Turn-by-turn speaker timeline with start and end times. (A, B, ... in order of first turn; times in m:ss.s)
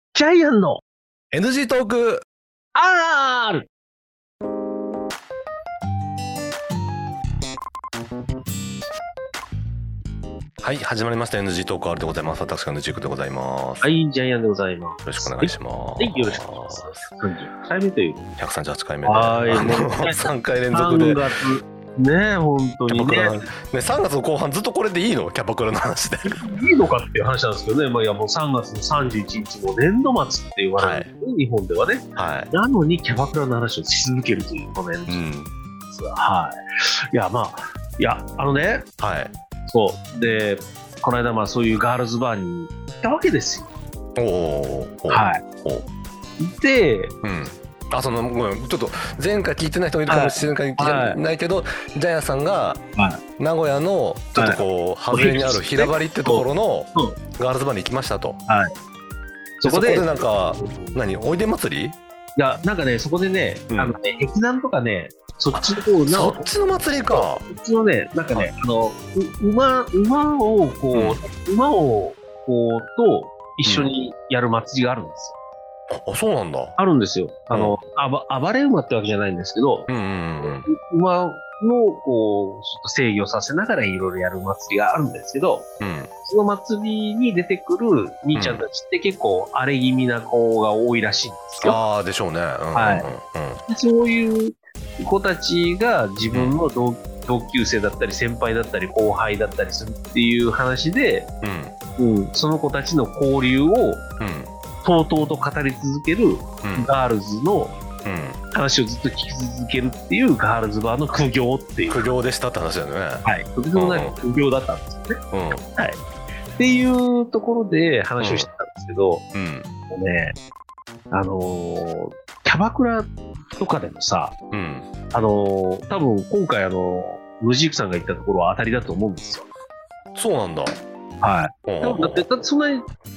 0:00.1-0:00.8 A
0:01.3-0:02.2 B
0:02.7-0:03.7 A
0:10.6-0:13.8 B
0:13.8-0:18.2 A
0:15.0-0:17.0 B
0:18.4-0:21.2 B
0:19.0-0:23.5 A
0:22.9-0:26.4 B
0:26.2-0:35.2 A
0:30.8-0:31.1 B
0:32.2-0:32.5 B
0:35.1-0:35.5 B
0:35.9-0:36.6 A
0:37.1-0:38.9 A
0:39.0-0:39.3 B
0:39.7-0:43.7 A
0:44.2-0:45.8 B
0:45.1-0:45.4 A
0:46.4-0:47.1 A
0:47.2-0:52.8 B
0:50.1-0:51.2 A
0:53.0-0:53.2 A
0:53.4-0:58.4 B
0:54.4-0:57.2 A
0:59.6-1:01.0 A
0:59.6-1:02.0 B
1:02.4-1:06.5 A
1:03.7-1:03.9 B
1:05.5-1:07.4 B
1:07.1-1:15.3 A
1:10.9-1:11.2 B
1:13.6-1:13.9 B
1:15.9-1:16.8 B
1:16.8-1:19.9 A
1:17.5-1:17.8 B
1:19.9-1:20.7 B
1:20.4-1:25.7 A
1:25.8-1:26.1 B
1:26.2-1:31.8 A
1:28.3-1:28.6 B
1:31.6-1:33.6 B
1:32.7-1:33.1 A
1:33.7-1:41.3 A
1:36.3-1:36.6 B
1:41.4-1:41.7 B
1:42.0-1:44.0 A
1:44.2-1:44.5 B
1:44.8-1:47.8 A
1:46.6-1:46.9 B
1:48.0-1:48.4 B
1:48.5-1:52.1 A
1:51.9-1:54.2 B
1:53.2-1:55.2 A
1:55.3-1:55.6 B
1:55.7-1:56.0 A
1:56.6-1:59.2 A
1:58.2-1:58.5 B
1:59.3-1:59.7 B
1:59.9-2:00.4 A
2:01.1-2:04.4 A
2:04.5-2:04.9 B
2:05.1-2:09.4 A
2:10.1-2:10.8 B
2:11.2-2:12.9 A
2:11.6-2:12.2 B